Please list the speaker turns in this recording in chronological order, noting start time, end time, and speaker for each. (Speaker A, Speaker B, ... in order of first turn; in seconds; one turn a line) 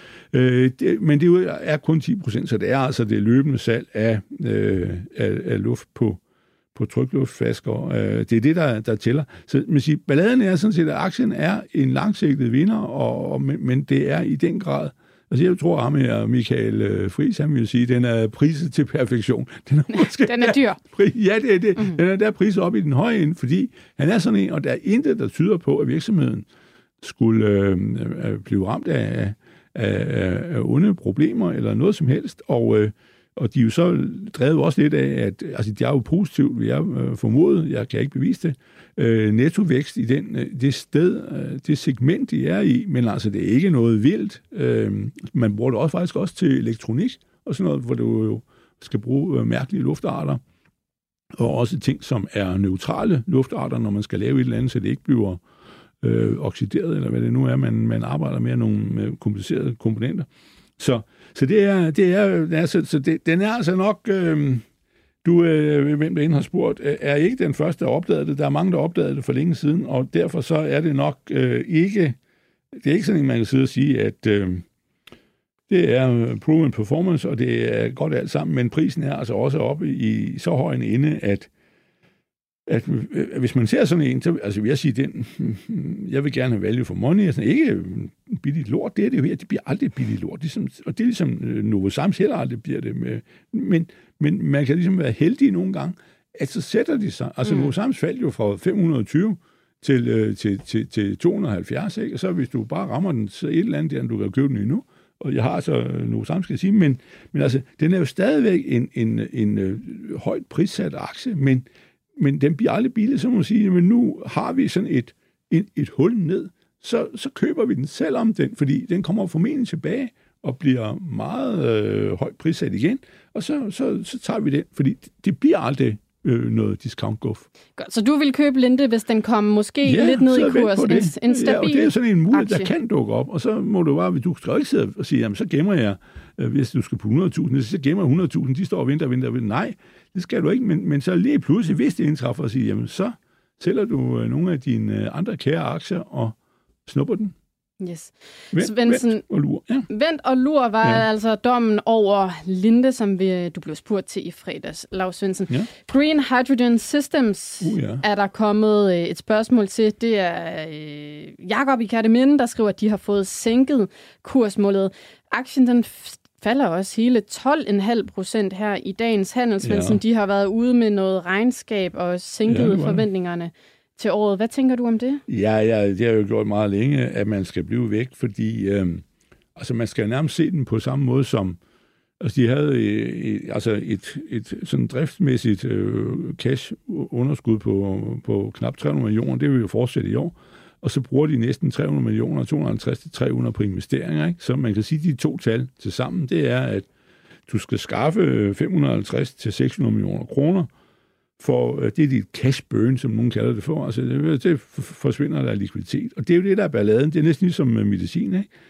Speaker A: 0.3-6.2
Speaker A: 6.8-26.5
Speaker B: 19.9-20.8
Speaker A: 27.0-50.4
Speaker A: 51.3-55.4
Speaker A: 56.0-60.3
Speaker A: 60.8-64.6
Speaker A: 65.2-72.2
Speaker A: 72.8-74.7
Speaker A: 75.7-81.5
Speaker A: 82.7-127.5
Speaker B: 97.5-97.7
Speaker B: 127.8-132.7
Speaker A: 129.8-147.3
Speaker B: 147.8-149.2
Speaker A: 148.5-149.9
Speaker B: 149.9-175.2
Speaker A: 157.6-158.0
Speaker A: 169.6-170.0
Speaker A: 172.5-173.1
Speaker A: 175.3-179.0
Speaker A: 179.6-181.6
Speaker A: 182.2-196.9
Speaker A: 197.5-200.7
Speaker A: 201.4-208.5